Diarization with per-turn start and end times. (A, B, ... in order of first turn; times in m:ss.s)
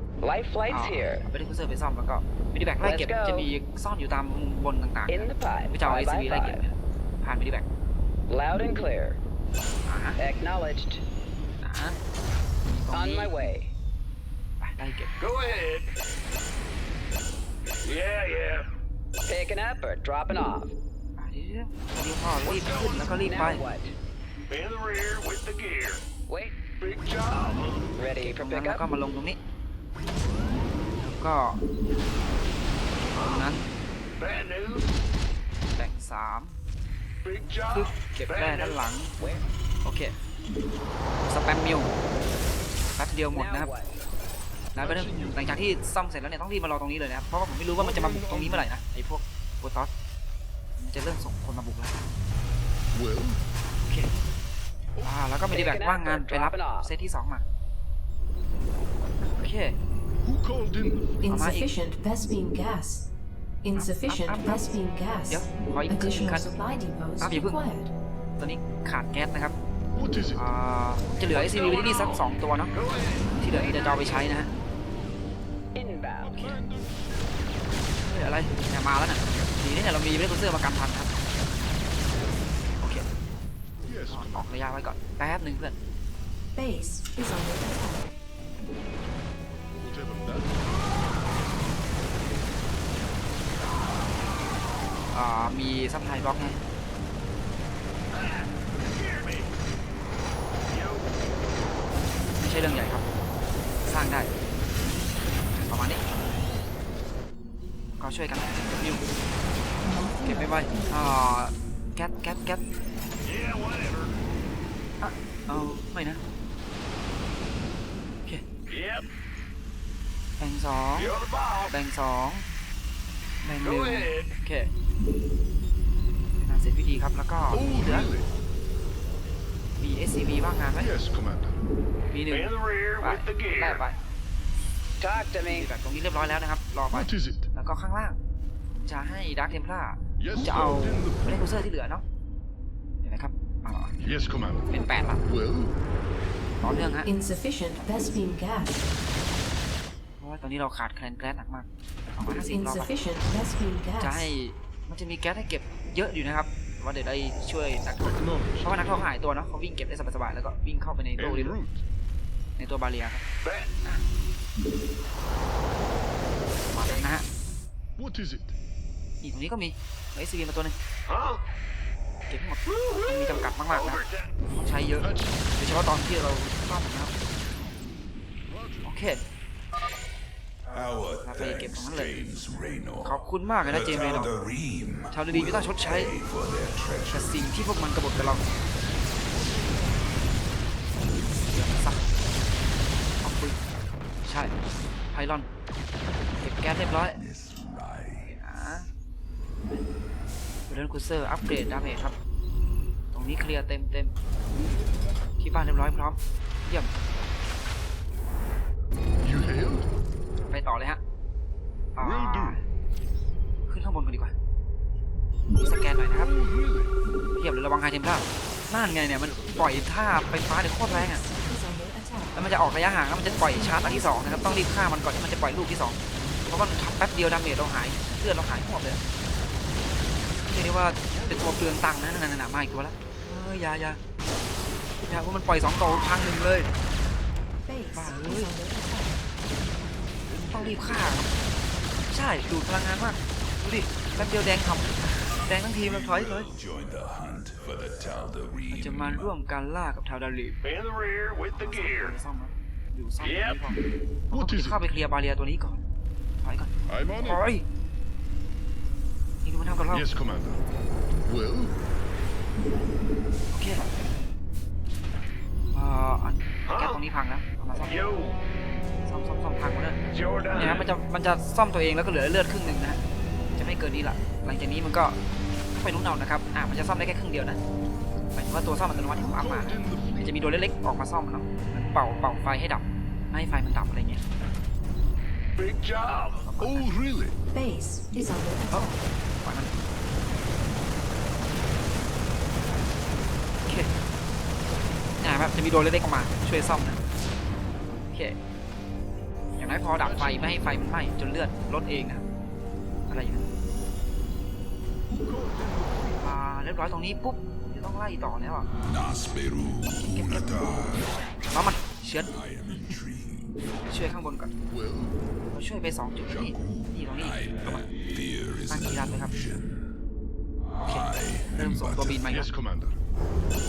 0:00.2-0:01.2 A
0:00.7-0:07.6 B
0:02.8-0:03.5 A
0:05.1-0:06.6 A
0:08.3-0:09.2 A
0:09.9-0:10.2 B
0:10.2-0:11.0 A
0:11.6-0:12.0 B
0:12.6-0:13.5 B
0:12.9-0:13.7 A
0:14.6-0:15.1 B
0:15.2-0:15.9 C
0:17.8-0:18.7 C
0:19.2-0:20.7 A
0:21.2-0:23.6 B
0:22.4-0:23.3 C
0:23.2-0:24.0 A
0:24.5-0:26.0 C
0:26.3-0:26.8 A
0:26.8-0:27.8 C
0:28.0-0:28.9 A
0:28.2-0:29.4 B
0:31.0-0:31.6 B
0:33.1-0:33.6 B
0:33.1-0:33.5 C
0:34.2-0:34.9 C
0:35.7-0:36.6 B
0:37.2-0:38.8 C
0:37.7-0:39.1 B
0:39.2-0:39.5 A
0:39.8-0:40.1 B
0:41.2-0:41.9 B
0:43.0-0:43.7 B
0:43.3-0:44.0 A
0:44.7-0:45.6 D
0:44.8-0:49.9 B
0:47.7-0:48.7 D
0:50.8-0:52.0 B
0:52.9-0:53.4 D
0:55.0-0:55.4 D
0:55.0-0:57.4 B
0:55.5-0:56.9 A
0:59.4-0:59.8 B
1:00.2-1:01.3 D
1:01.2-1:03.1 E
1:01.3-1:01.7 B
1:03.6-1:07.9 E
1:03.7-1:04.7 B
1:05.3-1:06.5 B
1:07.2-1:07.6 B
1:08.4-1:09.5 B
1:09.9-1:10.5 D
1:10.3-1:12.7 B
1:11.3-1:13.4 C
1:13.4-1:14.5 B
1:15.8-1:16.4 A
1:16.2-1:17.7 D
1:16.3-1:16.6 B
1:18.0-1:21.2 B
1:22.8-1:23.0 B
1:23.8-1:24.5 D
1:24.1-1:25.8 B
1:26.5-1:28.1 E
1:29.8-1:30.7 D
1:35.1-1:36.6 B
1:38.1-1:39.5 C
1:40.7-1:41.1 C
1:42.4-1:43.0 B
1:43.8-1:44.3 B
1:45.5-1:46.0 B
1:48.0-1:49.0 B
1:49.8-1:51.4 E
1:50.2-1:52.6 B
1:53.2-1:54.2 C
1:55.0-1:56.2 B
1:58.7-1:59.0 C
2:00.4-2:01.1 B
2:01.0-2:01.8 C
2:01.7-2:02.4 B
2:03.4-2:04.7 B
2:03.6-2:04.3 C
2:06.4-2:08.1 B
2:07.5-2:08.3 D
2:09.8-2:10.9 B
2:10.8-2:11.6 D
2:12.1-2:14.0 B
2:12.3-2:13.8 C
2:15.0-2:15.7 A
2:15.4-2:18.2 B
2:16.9-2:17.5 D
2:18.7-2:22.0 B
2:20.2-2:21.5 D
2:23.0-2:25.2 B
2:24.0-2:24.7 D
2:25.2-2:25.7 D
2:26.6-2:27.1 B
2:27.0-2:28.8 E
2:30.2-2:32.9 B
2:32.2-2:34.3 E
2:34.0-2:41.6 B
2:38.0-2:39.0 D
2:41.2-2:41.8 D
2:42.6-2:43.2 B
2:43.4-2:43.7 C
2:46.7-2:47.2 B
2:46.8-2:47.1 A
2:48.0-2:48.6 D
2:49.2-2:50.7 B
2:51.1-2:51.4 C
2:52.3-2:57.7 B
2:52.6-2:54.3 C
2:55.0-2:55.5 D
2:58.4-2:59.0 D
2:58.8-2:59.2 B
3:00.6-3:07.9 F
3:01.2-3:02.1 B
3:03.0-3:04.3 B
3:05.1-3:06.1 B
3:07.1-3:08.4 B
3:09.3-3:10.2 D
3:11.5-3:12.0 B
3:13.2-3:13.6 B
3:14.2-3:14.5 B
3:15.1-3:15.5 B
3:16.4-3:17.2 B
3:16.6-3:18.4 F
3:18.2-3:18.9 B
3:20.7-3:22.1 B
3:23.1-3:24.1 B
3:25.4-3:26.9 B
3:29.2-3:29.9 D
3:30.5-3:31.0 B
3:32.0-3:32.6 B
3:32.0-3:32.6 D
3:33.7-3:34.3 B
3:35.6-3:36.3 B
3:36.1-3:36.9 D
3:37.4-3:41.2 B
3:39.2-3:39.9 D
3:40.8-3:44.7 E
3:42.3-3:49.0 B
3:50.5-3:54.0 B
3:51.1-3:51.7 D
3:55.0-3:56.7 B
3:57.6-3:59.3 E
3:57.9-3:58.6 B
4:00.3-4:01.0 D
4:00.5-4:01.3 B
4:02.1-4:06.5 B
4:05.6-4:09.3 F
4:08.7-4:10.6 B
4:10.6-4:12.2 C
4:11.5-4:13.8 B
4:13.2-4:13.6 C
4:14.3-4:14.8 D
4:14.3-4:15.8 B
4:16.4-4:17.6 B
4:16.9-4:17.4 D
4:19.4-4:20.1 B
4:19.9-4:20.6 D
4:21.2-4:21.8 D
4:23.5-4:23.8 B
4:25.7-4:27.9 B
4:26.6-4:27.0 C
4:27.8-4:28.4 C
4:29.0-4:30.0 B
4:30.1-4:30.8 C
4:30.5-4:33.0 B
4:33.6-4:35.2 B
4:35.8-4:37.6 B
4:38.3-4:44.2 B
4:38.9-4:40.6 D
4:45.6-4:46.4 C
4:46.4-4:46.9 B
4:46.6-4:47.4 D
4:47.5-4:49.1 E
4:48.7-4:49.7 B
4:55.2-4:57.0 B
4:58.1-4:58.4 B
4:59.6-5:02.2 B
5:00.0-5:00.8 D
5:03.1-5:03.5 B
5:05.1-5:06.2 D
5:06.2-5:08.7 B
5:08.8-5:11.3 F
5:10.1-5:10.5 B
5:11.5-5:12.3 B
5:12.2-5:13.6 F
5:13.9-5:14.5 B
5:14.6-5:15.2 D
5:15.5-5:17.8 B
5:16.2-5:19.9 F
5:18.7-5:19.3 B
5:20.8-5:22.3 F
5:20.8-5:22.5 B
5:22.3-5:23.0 D